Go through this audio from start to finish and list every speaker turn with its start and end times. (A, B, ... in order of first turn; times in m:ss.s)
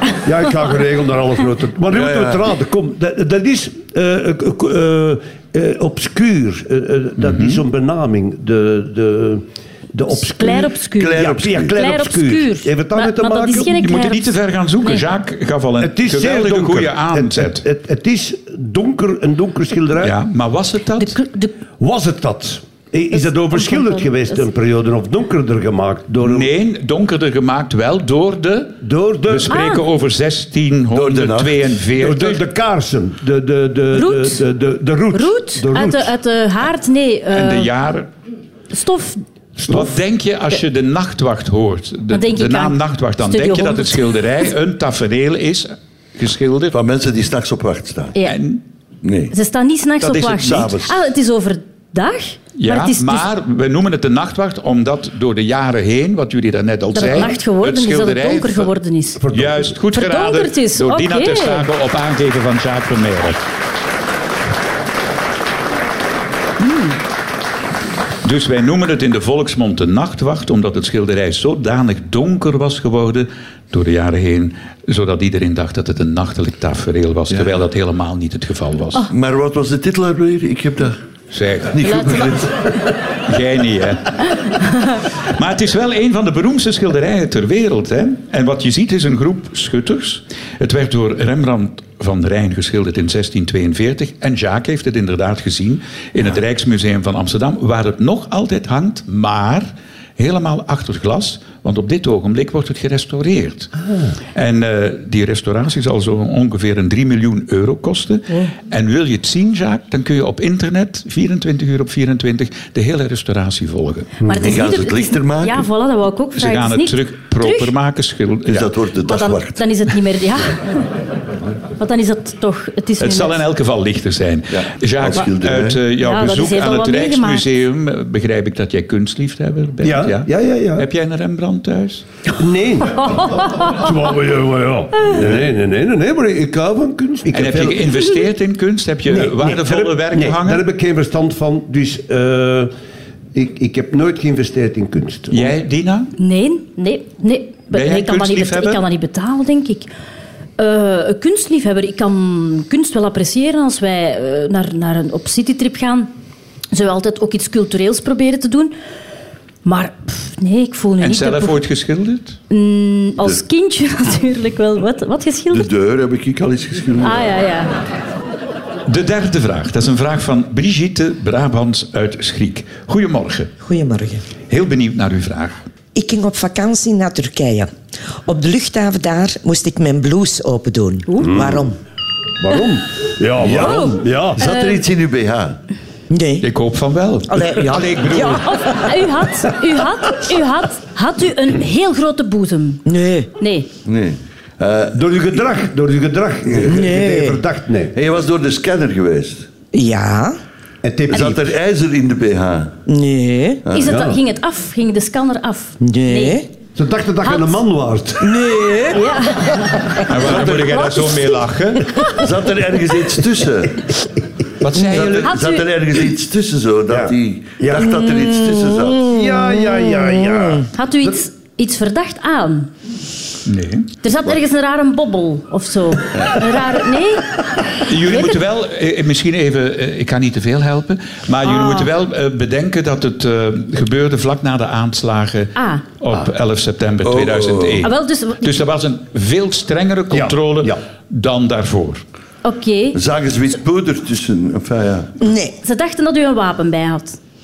0:00.2-0:13.7 A
0:01.9-0:02.4 B
0:07.2-0:07.6 C
0:10.2-0:14.3 D
0:11.0-0:11.7 B
0:13.7-0:17.6 C
0:15.8-0:20.1 A
0:20.0-0:21.2 C
0:21.0-0:21.5 D
0:21.8-0:26.5 A
0:23.1-0:24.4 D
0:26.2-0:32.4 C
0:28.8-0:29.6 A
0:29.5-0:29.8 D
0:30.9-0:31.7 B
0:31.9-0:36.1 A
0:33.9-0:34.4 D
0:35.1-0:37.7 D
0:37.3-0:38.1 C
0:38.7-0:39.2 D
0:39.6-0:39.9 A
0:39.7-0:46.7 C
0:42.1-0:44.1 D
0:46.7-0:48.2 B
0:48.2-0:48.6 C
0:49.0-0:49.3 B
0:49.3-0:53.2 D
0:50.0-0:51.0 B
0:52.6-0:58.7 C
0:56.9-0:59.2 D
0:59.2-0:59.7 A
0:59.3-1:03.4 C
0:59.9-1:01.6 D
1:06.6-1:06.9 D
1:08.2-1:19.0 C
1:19.1-1:21.0 B
1:21.3-1:22.2 C
1:21.7-1:22.5 B
1:21.8-1:22.2 D
1:23.2-1:24.3 C
1:25.3-1:43.7 C
1:44.3-1:54.1 C
1:54.2-1:57.7 D
1:54.4-1:55.7 B
1:56.4-1:58.7 C
1:58.4-1:59.6 B
1:59.0-2:00.8 D
2:01.8-2:03.4 D
2:03.0-2:12.0 C
2:04.5-2:05.8 B
2:06.0-2:07.4 D
2:09.8-2:10.9 A
2:12.4-2:18.0 A
2:13.2-2:13.8 D
2:17.3-2:20.6 C
2:19.1-2:22.7 A
2:23.3-2:25.6 A
2:25.3-2:26.1 C
2:26.2-2:29.9 D
2:27.7-2:28.8 C
2:30.6-2:36.1 D
2:36.7-2:38.7 D
2:39.6-2:41.6 D
2:41.0-2:42.4 C
2:42.5-2:45.7 D
2:45.5-2:47.3 B
2:47.0-2:47.7 D
2:48.9-2:53.5 C
2:53.6-2:54.2 E
2:54.5-2:55.6 C
2:55.9-2:57.7 E
2:58.2-3:01.8 E
3:01.2-3:01.7 A
3:02.4-3:04.4 A
3:03.4-3:05.6 B
3:03.5-3:04.8 D
3:06.1-3:06.4 E
3:06.4-3:08.5 C
3:07.3-3:08.9 E
3:08.4-3:12.8 D
3:12.8-3:13.3 E
3:13.4-3:13.7 D
3:13.8-3:15.0 B
3:14.9-3:17.9 A
3:16.6-3:17.4 E
3:17.9-3:19.5 B
3:19.7-3:20.4 E
3:20.8-3:21.5 A
3:21.1-3:22.7 B
3:22.9-3:23.6 E
3:23.7-3:26.4 D
3:23.8-3:24.2 A
3:25.8-3:26.5 E
3:26.8-3:28.8 A
3:27.2-3:27.6 D
3:28.2-3:29.0 E
3:28.9-3:30.9 D
3:30.1-3:32.0 C
3:32.1-3:33.8 B
3:34.6-3:35.3 C
3:34.8-3:39.1 B
3:35.1-3:35.6 D
3:36.9-3:38.0 A
3:38.8-3:40.6 E
3:39.0-3:40.6 A
3:40.7-3:42.7 D
3:43.4-3:43.9 C
3:44.0-3:47.2 D
3:47.8-4:02.0 C
3:48.1-3:48.3 D
3:51.4-3:51.9 D
3:55.6-3:55.8 D
3:57.0-3:57.9 B
3:57.8-3:58.5 D
4:00.1-4:00.8 A
4:02.4-4:03.0 D
4:02.9-4:05.1 B
4:05.2-4:05.5 E
4:05.6-4:07.2 D